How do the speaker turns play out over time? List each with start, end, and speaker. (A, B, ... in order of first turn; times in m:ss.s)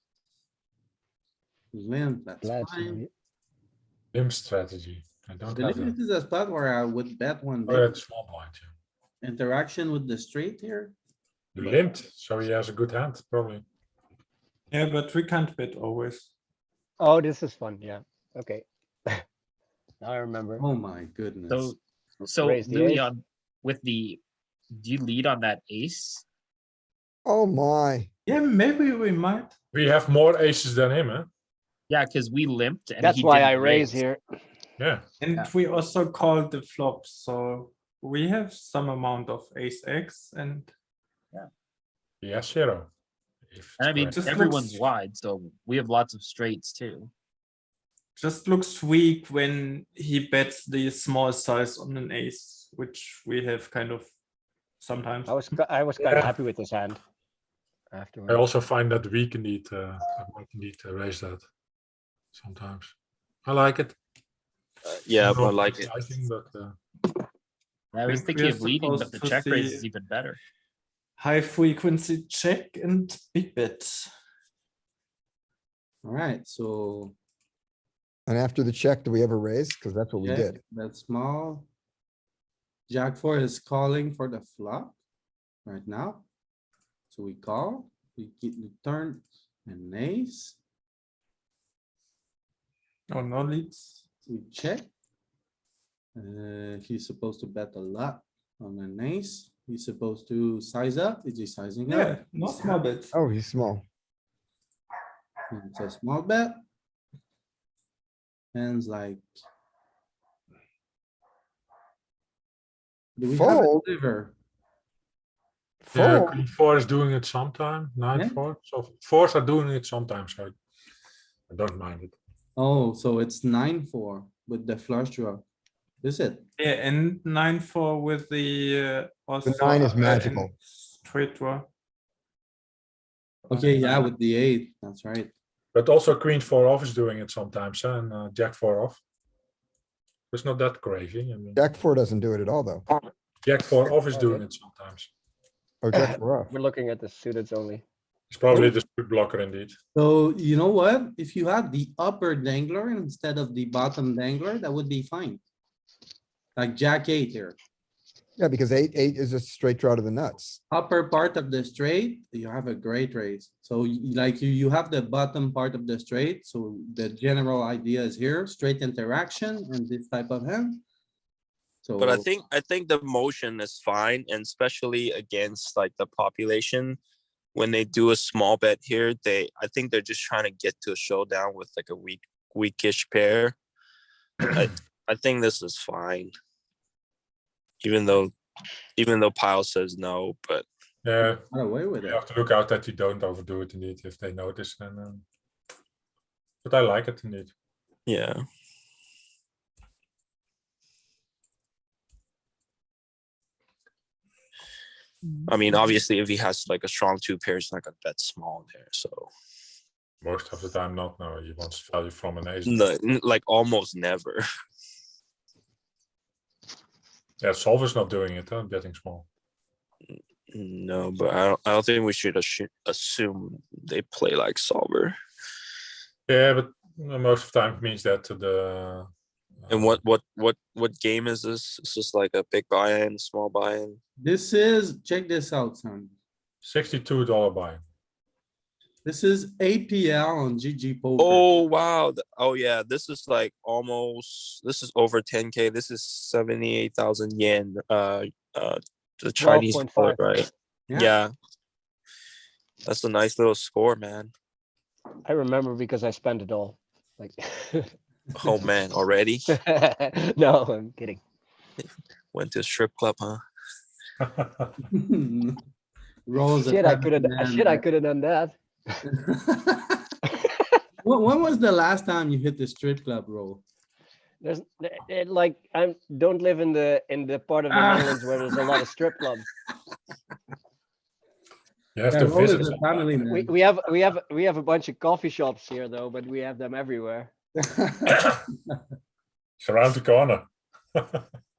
0:01.7-0:03.0 A
0:02.4-0:03.1 B
0:04.1-0:06.0 C
0:05.5-0:07.9 A
0:07.6-0:08.7 C
0:09.2-0:11.0 A
0:11.5-0:13.6 C
0:11.6-0:11.8 A
0:14.7-0:16.3 D
0:17.0-0:19.2 B
0:20.0-0:20.6 B
0:20.6-0:21.7 A
0:21.5-0:24.2 E
0:22.4-0:23.1 B
0:24.7-0:26.2 E
0:27.2-0:28.1 F
0:28.3-0:29.5 D
0:29.7-0:31.3 C
0:31.9-0:34.0 E
0:33.0-0:34.2 B
0:35.2-0:40.7 D
0:42.2-0:42.9 C
0:43.5-0:44.3 C
0:43.8-0:47.1 E
0:44.1-0:44.8 D
0:48.2-0:54.1 D
0:54.8-0:55.4 D
0:55.3-0:57.0 B
0:56.0-0:56.3 C
0:57.9-0:58.4 B
0:58.3-1:01.4 C
1:02.3-1:02.9 C
1:03.4-1:04.0 C
1:04.8-1:05.9 G
1:05.2-1:06.8 C
1:07.9-1:10.4 E
1:08.0-1:09.9 D
1:11.2-1:14.1 D
1:16.0-1:17.2 A
1:18.3-1:20.6 F
1:20.2-1:21.7 A
1:22.9-1:25.0 A
1:25.6-1:26.2 A
1:27.1-1:30.6 A
1:33.1-1:34.0 D
1:34.2-1:34.9 A
1:36.2-1:42.8 A
1:41.9-1:43.1 D
1:43.1-1:43.8 F
1:45.5-1:46.6 A
1:48.5-1:49.3 A
1:53.2-1:54.4 A
1:53.3-1:53.8 F
1:55.9-1:56.3 F
1:55.9-2:00.5 C
1:58.1-1:58.4 A
2:01.5-2:02.1 C
2:02.6-2:05.4 A
2:06.0-2:06.5 A
2:06.6-2:11.7 D
2:09.4-2:10.5 F
2:13.5-2:15.3 A
2:13.5-2:14.1 D
2:15.7-2:19.0 C
2:20.3-2:21.6 C
2:21.6-2:22.8 F
2:23.4-2:25.1 C
2:24.1-2:24.4 B
2:25.8-2:26.5 F
2:25.9-2:27.8 B
2:28.3-2:29.8 C
2:28.5-2:28.7 A
2:29.9-2:35.4 A
2:36.6-2:37.6 A
2:38.4-2:40.6 F
2:40.7-2:50.8 A
2:51.8-2:52.3 A
2:52.0-2:57.0 G
2:57.5-3:03.6 G
3:04.4-3:06.3 G
3:07.8-3:08.3 G
3:09.0-3:10.6 G
3:11.0-3:11.4 C
3:11.2-3:12.2 A
3:12.0-3:15.2 C
3:16.6-3:17.5 C
3:18.1-3:18.4 G
3:25.5-3:29.3 G
3:30.2-3:32.8 C
3:32.6-3:34.4 G
3:37.4-3:39.2 C
3:40.5-3:45.2 G
3:46.3-3:49.1 C
3:49.6-3:50.0 C
3:49.7-3:54.0 G
3:54.2-3:56.1 A
3:56.6-3:57.8 C
3:59.0-4:01.5 A
4:01.2-4:11.3 G
4:09.4-4:10.2 B
4:10.9-4:11.1 A
4:12.8-4:14.3 G
4:15.2-4:17.9 B
4:18.4-4:19.5 G
4:19.5-4:21.2 B
4:22.3-4:23.4 G
4:24.2-4:24.6 C
4:24.8-4:25.6 A
4:26.3-4:27.8 A
4:26.6-4:28.5 B
4:29.2-4:30.0 A
4:31.0-4:33.6 A
4:34.4-4:39.5 B
4:37.7-4:38.6 A
4:41.9-4:43.1 C
4:42.1-4:43.5 A
4:43.3-4:47.3 B
4:47.6-4:48.8 A
4:49.6-4:51.2 C